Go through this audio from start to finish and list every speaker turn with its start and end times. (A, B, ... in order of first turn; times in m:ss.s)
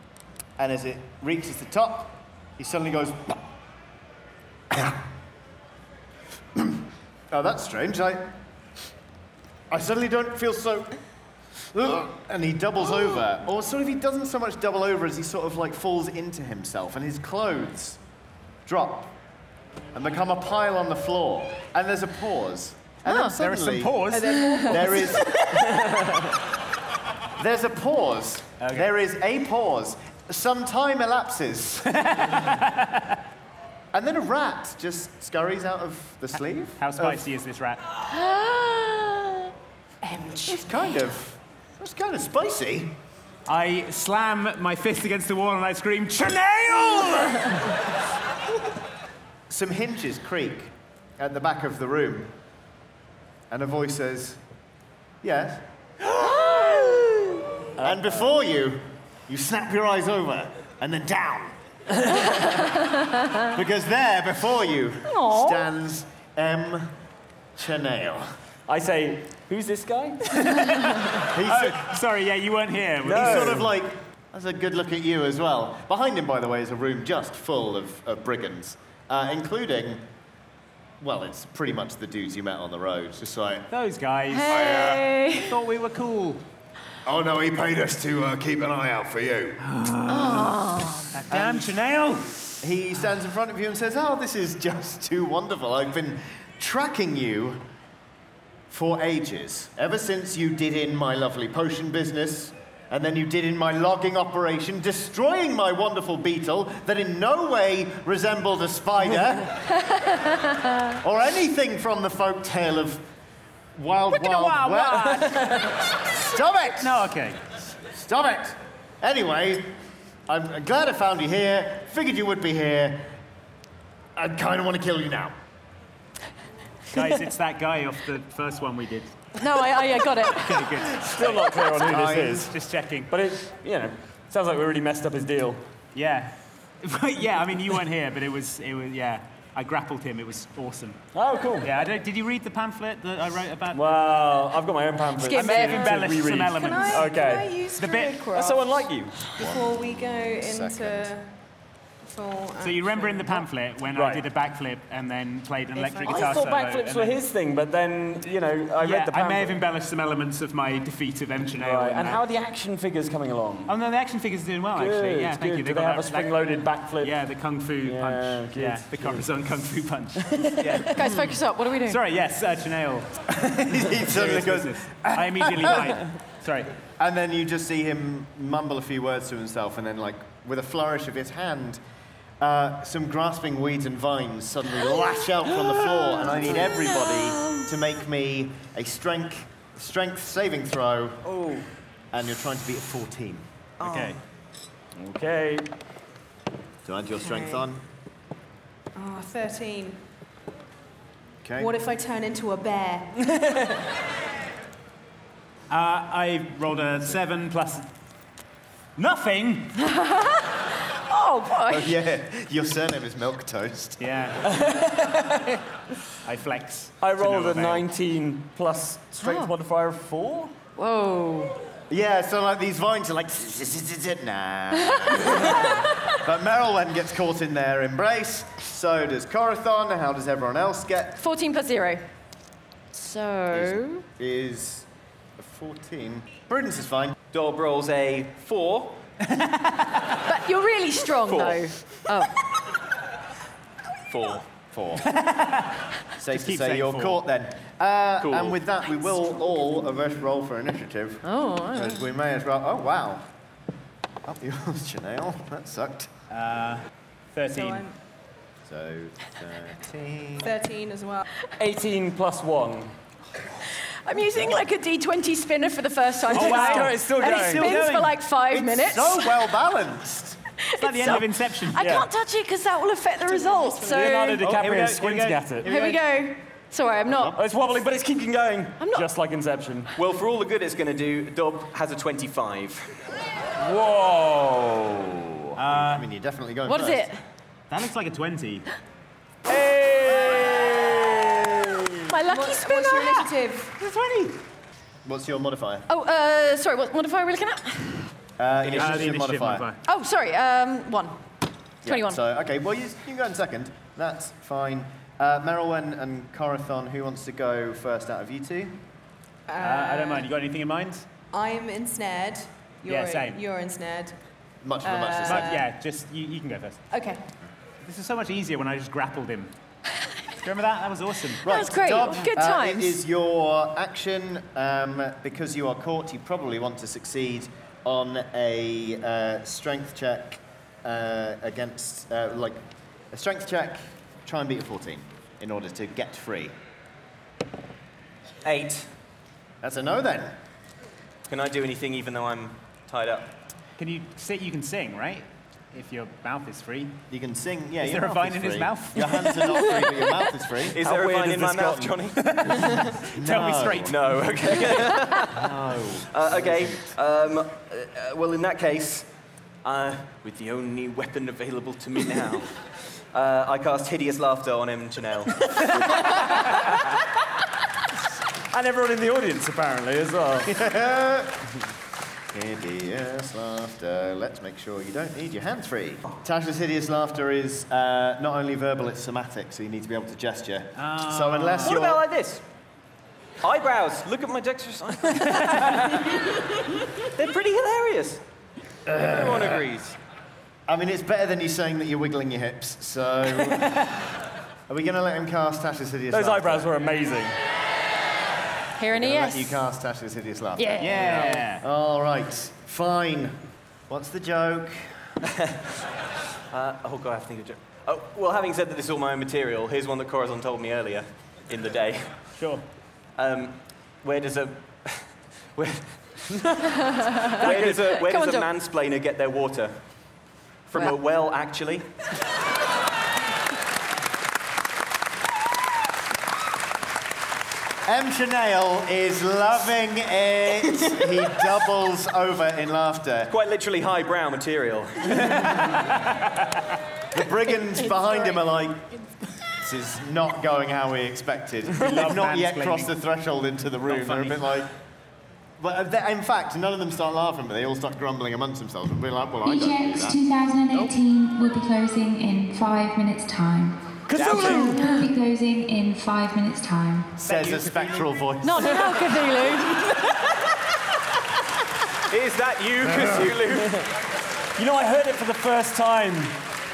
0:00.6-0:03.4 A
0:04.7-0:05.1 A
0:06.6-0:08.3 A
0:09.7-0:11.0 A
0:11.7-0:18.0 A
0:18.6-0:19.2 A
0:19.9-0:25.9 A
0:23.1-0:23.3 B
0:23.4-0:25.9 C
0:24.1-0:25.1 D
0:24.2-0:24.7 B
0:27.4-0:32.1 A
0:28.6-0:28.9 C
0:31.9-0:33.2 C
0:33.9-0:37.2 A
0:36.8-0:37.8 C
0:38.1-0:39.4 B
0:40.0-0:40.7 D
0:40.4-0:43.0 A
0:43.5-0:47.8 C
0:49.5-0:52.3 A
0:53.5-0:54.4 A
0:55.2-0:55.6 A
0:56.2-0:57.2 B
0:57.8-0:58.3 E
0:57.8-1:01.6 A
1:02.3-1:03.2 B
1:03.5-1:06.9 A
1:05.1-1:05.6 B
1:07.6-1:08.3 A
1:08.7-1:10.2 E
1:10.3-1:13.7 C
1:11.3-1:11.9 A
1:13.0-1:13.7 E
1:13.1-1:20.0 A
1:21.0-1:23.7 A
1:23.7-1:24.7 C
1:24.3-1:25.6 B
1:24.5-1:25.1 A
1:25.3-1:26.4 C
1:27.0-1:29.6 A
1:29.6-1:32.4 C
1:30.1-1:31.2 B
1:31.3-1:31.8 A
1:32.6-1:37.6 A
1:38.7-1:49.6 A
1:51.0-1:53.0 A
1:53.8-1:57.1 A
1:54.1-1:56.0 C
1:56.8-1:57.4 C
1:57.9-1:59.7 A
2:00.3-2:03.1 A
2:04.2-2:05.3 A
2:06.9-2:09.1 C
2:09.4-2:10.7 B
2:10.3-2:13.1 C
2:11.0-2:12.5 E
2:11.8-2:12.5 A
2:13.1-2:15.6 E
2:15.9-2:21.0 C
2:21.1-2:21.7 E
2:21.6-2:23.9 C
2:23.7-2:27.6 E
2:25.2-2:26.0 B
2:25.3-2:27.2 C
2:26.6-2:31.3 D
2:27.8-2:28.2 C
2:28.3-2:29.3 E
2:29.4-2:31.1 A
2:32.0-2:33.4 D
2:32.6-2:37.2 C
2:33.9-2:34.3 E
2:36.0-2:39.6 E
2:38.8-2:42.2 C
2:41.6-2:43.8 E
2:43.7-2:56.7 C
2:44.7-2:47.2 E
2:47.8-2:49.3 E
2:50.2-2:50.9 E
2:50.9-2:52.0 B
2:53.4-2:56.0 A
2:57.0-3:01.8 A
3:02.4-3:11.3 A
3:06.3-3:06.7 E
3:06.8-3:07.6 B
3:12.1-3:13.4 A
3:13.8-3:14.2 C
3:13.8-3:14.2 F
3:15.0-3:15.7 E
3:16.8-3:17.8 A
3:17.2-3:17.6 D
3:19.0-3:20.0 D
3:21.4-3:21.7 A
3:21.6-3:23.1 D
3:25.7-3:27.9 C
3:29.0-3:29.8 C
3:29.8-3:32.0 B
3:31.7-3:34.0 A
3:34.0-3:34.4 C
3:34.4-3:35.4 E
3:36.2-3:37.9 C
3:37.0-3:40.5 E
3:39.2-3:39.5 B
3:40.8-3:41.6 B
3:41.9-3:51.2 A
3:44.9-3:46.0 B
3:51.2-3:52.0 B
3:52.9-3:54.0 B
3:53.5-3:57.2 A
3:57.3-3:59.0 F
3:59.3-4:00.0 C
4:00.3-4:02.3 B
4:01.2-4:01.7 F
4:04.1-4:04.5 F
4:04.7-4:05.1 A
4:05.1-4:07.2 C
4:06.2-4:13.3 A
4:08.2-4:08.6 F
4:11.2-4:12.0 B
4:14.2-4:16.1 A
4:16.3-4:17.9 C
4:17.5-4:18.0 D
4:18.6-4:20.6 A
4:20.4-4:21.3 D
4:21.6-4:22.9 E
4:24.0-4:29.3 B
4:26.3-4:28.2 C
4:26.3-4:27.8 E
4:28.5-4:30.4 A
4:30.6-4:34.5 B
4:30.8-4:32.0 C
4:31.8-4:32.0 E
4:33.3-4:34.0 D
4:33.9-4:35.7 E
4:34.4-4:36.0 C
4:35.6-4:37.4 B
4:37.1-4:37.4 A
4:37.3-4:39.9 E
4:38.8-4:39.1 B
4:40.0-4:42.9 F
4:43.6-4:45.4 E
4:45.6-4:46.0 C
4:45.7-4:47.1 A
4:46.7-4:47.2 B
4:47.7-4:48.7 C
4:49.5-4:51.9 E
4:52.1-4:53.2 B
4:52.3-4:53.8 D
4:53.8-4:54.4 C
4:55.1-4:55.9 A
4:55.9-4:58.1 B
4:58.4-4:59.7 A
4:58.6-4:59.1 F
4:58.7-4:59.8 C
4:59.8-5:01.2 B
5:01.8-5:08.8 A
5:01.8-5:02.2 B
5:09.5-5:10.3 D
5:09.6-5:11.1 C
5:11.3-5:14.2 D
5:12.9-5:13.4 C
5:14.6-5:15.6 A
5:14.8-5:15.7 D
5:15.2-5:16.8 C
5:16.9-5:17.2 D
5:17.8-5:19.5 C
5:20.4-5:22.3 C
5:21.4-5:36.5 A
5:21.4-5:23.0 B
5:38.4-5:38.9 F
5:39.6-5:40.4 A
5:41.3-5:43.3 F
5:43.8-5:47.0 C
5:47.1-5:50.8 A
5:47.8-5:49.6 C
5:50.7-5:52.2 F
5:50.8-5:52.0 E
5:52.2-5:54.0 C
5:53.1-5:54.0 A
5:53.9-5:55.4 F
5:55.3-5:56.9 A
5:56.1-5:59.1 F
5:59.6-6:02.5 F
6:03.1-6:06.6 F
6:08.5-6:10.5 E
6:10.5-6:11.5 A
6:12.3-6:22.0 A
6:20.8-6:21.8 C
6:21.6-6:22.4 F
6:23.4-6:26.2 F
6:25.4-6:25.9 C
6:27.0-6:28.2 F
6:28.9-6:29.6 A
6:29.1-6:30.0 F
6:30.7-6:33.9 A
6:34.7-6:36.7 A
6:36.1-6:37.4 E
6:38.8-6:39.6 B
6:38.9-6:43.4 A
6:40.6-6:41.3 B
6:40.8-6:41.6 C
6:43.9-6:45.0 A
6:46.5-6:52.3 F
6:52.4-6:52.6 C
6:53.2-6:56.6 F
6:56.8-6:58.5 B
6:57.3-6:59.8 F
6:57.4-6:57.8 C
7:00.7-7:01.9 F
7:07.9-7:13.3 A
7:13.3-7:15.6 F
7:15.2-7:16.7 C
7:17.1-7:18.9 A
7:19.6-7:24.7 A
7:21.8-7:22.9 C
7:23.9-7:24.4 C
7:25.6-7:30.2 A
7:29.4-7:34.0 G
7:34.1-7:34.8 E
7:34.1-7:34.8 C
7:34.2-7:35.1 B
7:34.8-7:37.2 G
7:37.2-7:38.8 A
7:37.2-7:38.1 C
7:38.4-7:39.9 B
7:42.1-7:43.8 F
7:42.8-7:43.4 A
7:44.6-7:46.4 E